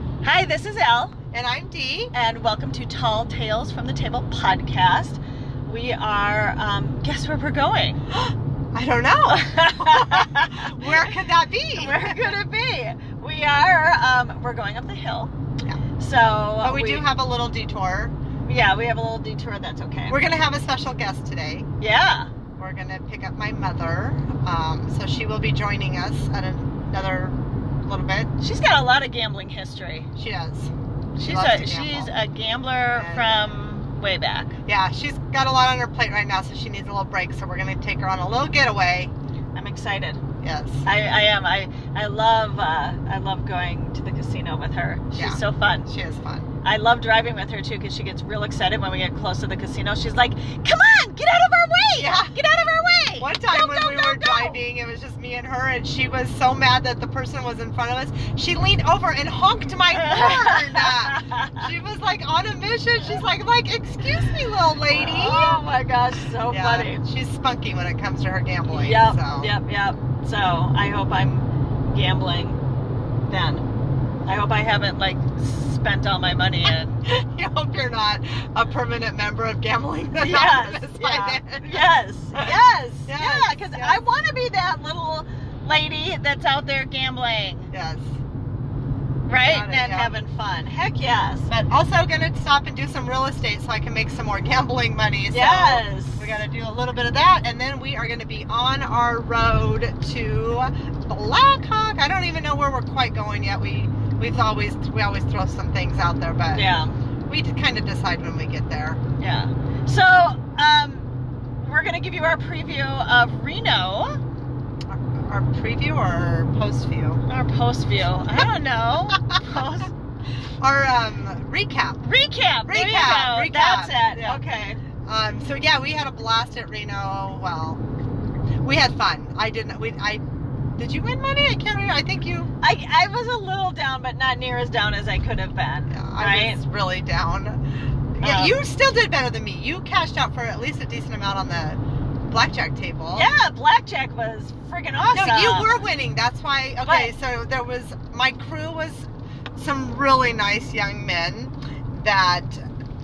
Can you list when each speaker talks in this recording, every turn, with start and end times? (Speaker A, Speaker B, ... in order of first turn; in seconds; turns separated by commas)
Speaker A: 0.2-1.1, Speaker B: 1.3-2.1, Speaker A: 2.1-8.1, Speaker B: 8.7-12.4, Speaker A: 9.3-11.1, Speaker A: 11.7-15.3, Speaker A: 16.0-17.1, Speaker B: 16.6-18.1, Speaker A: 18.4-20.2, Speaker B: 20.1-21.7, Speaker A: 21.8-22.3, Speaker B: 22.6-28.3, Speaker A: 28.4-30.1, Speaker B: 30.1-32.1, Speaker A: 31.2-34.6, Speaker B: 32.9-33.5, Speaker B: 34.6-39.1, Speaker A: 39.5-40.2, Speaker B: 40.4-40.9, Speaker A: 40.8-45.9, Speaker B: 45.1-46.5, Speaker A: 46.6-54.6, Speaker B: 52.0-52.4, Speaker B: 53.2-65.6, Speaker A: 60.0-61.6, Speaker A: 64.7-67.0, Speaker B: 66.5-69.5, Speaker A: 68.6-72.6, Speaker A: 73.2-73.6, Speaker A: 74.2-77.0, Speaker B: 77.0-82.5, Speaker A: 80.2-87.7, Speaker B: 83.0-84.0, Speaker B: 87.7-88.2, Speaker A: 89.3-91.5, Speaker B: 89.3-90.2, Speaker B: 91.5-109.0, Speaker A: 95.3-96.4, Speaker A: 106.5-107.0, Speaker A: 109.2-111.1, Speaker A: 111.6-114.2, Speaker B: 114.9-117.2, Speaker A: 117.3-119.9, Speaker B: 119.2-119.6, Speaker B: 120.6-122.0, Speaker A: 122.0-124.8, Speaker B: 122.7-124.4, Speaker B: 125.0-127.8, Speaker B: 128.6-130.2, Speaker B: 130.8-132.5, Speaker A: 132.6-136.6, Speaker B: 135.9-137.6, Speaker B: 138.1-143.3, Speaker A: 138.2-138.6, Speaker A: 143.1-145.8, Speaker B: 145.1-152.6, Speaker A: 146.8-147.2